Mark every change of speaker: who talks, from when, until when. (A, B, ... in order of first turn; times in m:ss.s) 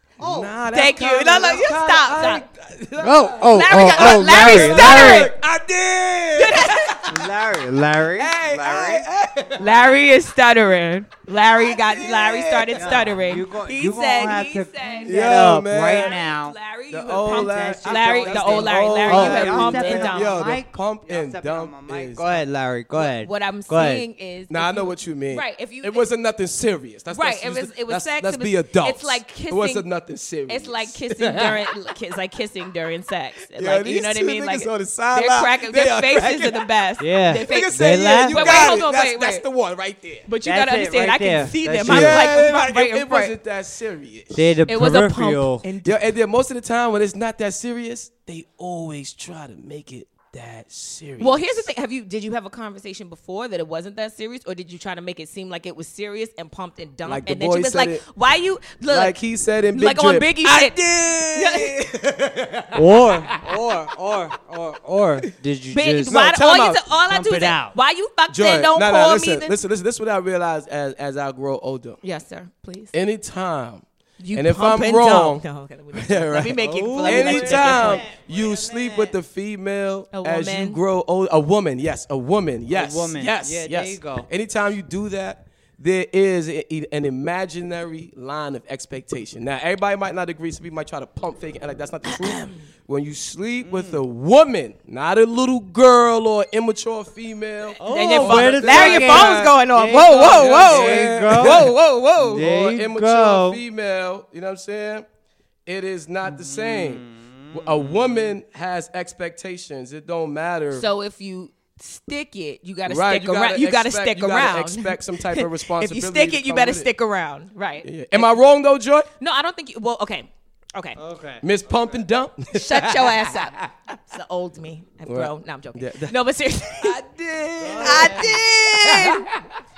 0:00.2-0:00.6 A
0:00.2-0:07.2 B
0:00.7-0:02.5 C
0:03.0-0:05.3 A
0:03.5-0:05.3 C
0:06.4-0:07.1 C
0:07.1-0:09.1 A
0:08.2-0:09.9 B
0:09.6-0:15.3 C
0:11.6-0:13.2 B
0:12.7-0:16.6 A
0:15.0-0:16.1 B
0:15.9-0:20.3 C
0:16.9-0:22.4 B
0:17.3-0:24.0 A
0:22.9-0:26.1 C
0:24.5-0:31.7 B
0:27.1-0:29.9 C
0:30.5-0:39.4 C
0:33.6-0:36.7 B
0:37.0-0:38.8 A
0:37.5-0:40.3 B
0:40.3-0:43.3 C
0:40.4-0:42.4 A
0:41.8-0:44.6 B
0:44.3-0:45.7 A
0:44.7-0:46.0 C
0:45.8-0:51.7 B
0:51.2-0:59.2 C
0:57.1-0:58.0 B
0:58.9-1:03.7 B
0:59.7-1:00.8 C
1:01.3-1:01.7 C
1:02.7-1:07.8 A
1:05.7-1:09.6 C
1:06.1-1:06.4 B
1:08.3-1:12.0 B
1:12.0-1:12.9 C
1:12.9-1:45.0 B
1:14.2-1:18.1 C
1:16.6-1:19.2 A
1:20.1-1:20.8 C
1:22.7-1:24.3 A
1:32.1-1:32.6 C
1:33.6-1:34.0 A
1:37.8-1:42.4 C
1:37.8-1:43.6 A
1:45.7-1:50.9 B
1:46.2-1:48.4 A
1:50.7-1:58.4 C
1:52.9-1:56.9 B
1:57.8-1:59.1 B
1:59.2-2:01.0 C
2:01.0-2:02.0 A
2:01.4-2:03.3 B
2:02.5-2:07.0 C
2:05.1-2:06.1 B
2:06.8-2:09.1 B
2:07.6-2:08.4 A
2:07.8-2:09.3 C